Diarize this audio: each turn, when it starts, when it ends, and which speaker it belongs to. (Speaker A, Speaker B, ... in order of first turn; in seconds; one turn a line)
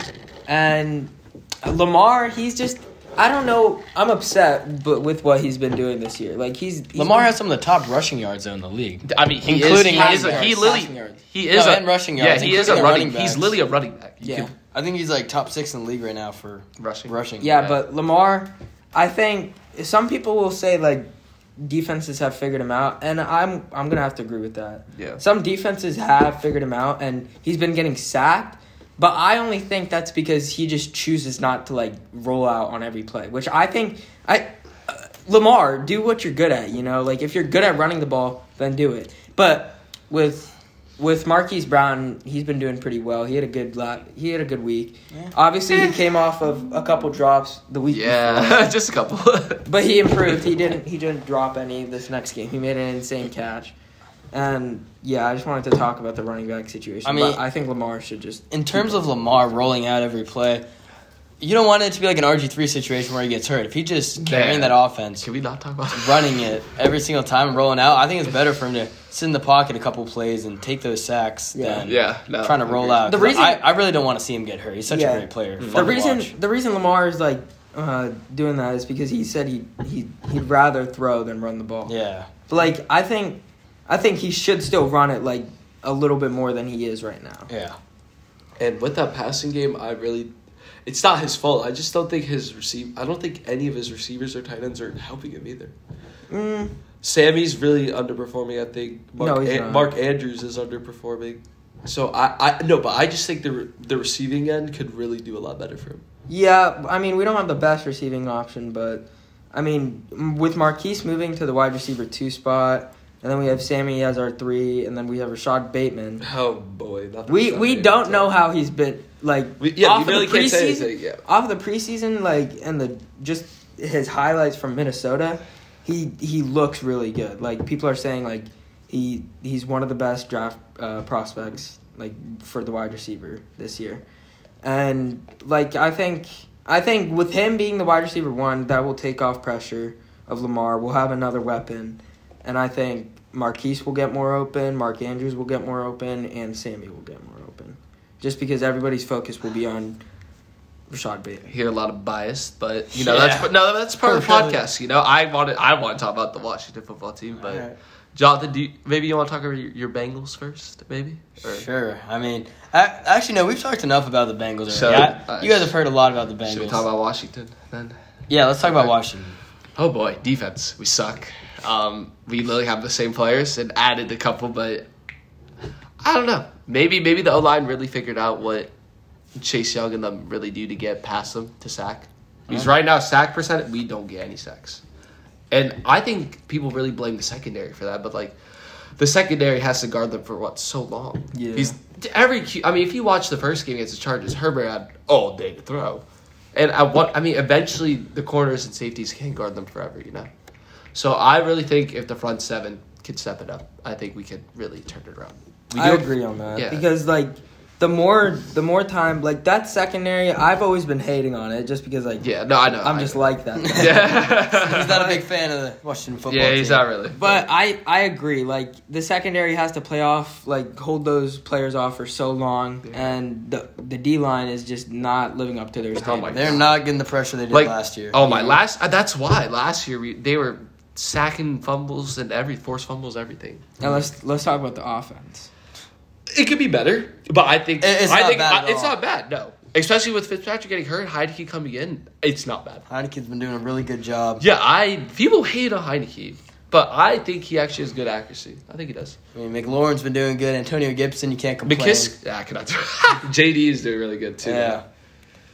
Speaker A: 0.5-7.3
Speaker B: 6.9-10.6
Speaker C: 9.0-14.5
Speaker A: 9.6-11.2
Speaker B: 11.5-13.6
Speaker A: 12.4-12.9
Speaker A: 14.2-14.5
Speaker B: 14.7-17.6
Speaker C: 16.8-17.7
Speaker A: 17.4-48.7
Speaker C: 24.9-25.2
Speaker C: 45.7-46.0
Speaker C: 47.9-49.6
Speaker A: 49.6-53.7
Speaker A: 54.3-58.8
Speaker B: 57.0-57.4
Speaker B: 58.5-60.6
Speaker B: 61.4-65.2
Speaker C: 64.2-66.5
Speaker B: 65.9-76.3
Speaker A: 71.5-71.9
Speaker C: 71.8-73.3
Speaker A: 73.0-73.6
Speaker A: 74.9-81.9
Speaker C: 75.6-75.9
Speaker B: 81.8-82.3
Speaker A: 82.5-87.5
Speaker B: 87.5-87.8
Speaker C: 88.6-90.3
Speaker C: 90.8-95.7
Speaker A: 96.3-96.8
Speaker C: 97.0-106.0
Speaker A: 99.2-99.9
Speaker A: 106.3-116.2
Speaker C: 116.2-118.3
Speaker A: 117.3-134.0
Speaker C: 119.6-121.2
Speaker A: 134.6-150.0
Speaker A: 150.9-151.5
Speaker C: 151.5-161.7
Speaker B: 152.9-154.6
Speaker B: 157.4-157.7
Speaker B: 161.4-166.8
Speaker C: 164.7-165.7
Speaker C: 166.4-168.0
Speaker B: 168.3-169.4
Speaker C: 168.6-168.9
Speaker C: 169.8-174.9
Speaker C: 176.0-178.7
Speaker C: 179.4-184.8
Speaker C: 185.5-200.3
Speaker A: 191.3-191.7
Speaker C: 200.9-206.8
Speaker A: 205.8-212.3
Speaker C: 212.2-215.0
Speaker A: 212.8-215.2
Speaker B: 213.6-214.0
Speaker B: 214.6-216.9
Speaker C: 216.3-217.4
Speaker A: 217.2-226.6
Speaker C: 222.8-223.2
Speaker C: 226.0-226.8
Speaker B: 226.3-228.5
Speaker C: 227.5-233.7
Speaker A: 233.8-235.5
Speaker C: 236.3-242.8
Speaker B: 237.8-238.9
Speaker B: 242.9-244.4
Speaker C: 244.4-249.2
Speaker B: 249.3-252.1
Speaker C: 251.6-254.8
Speaker B: 254.4-254.8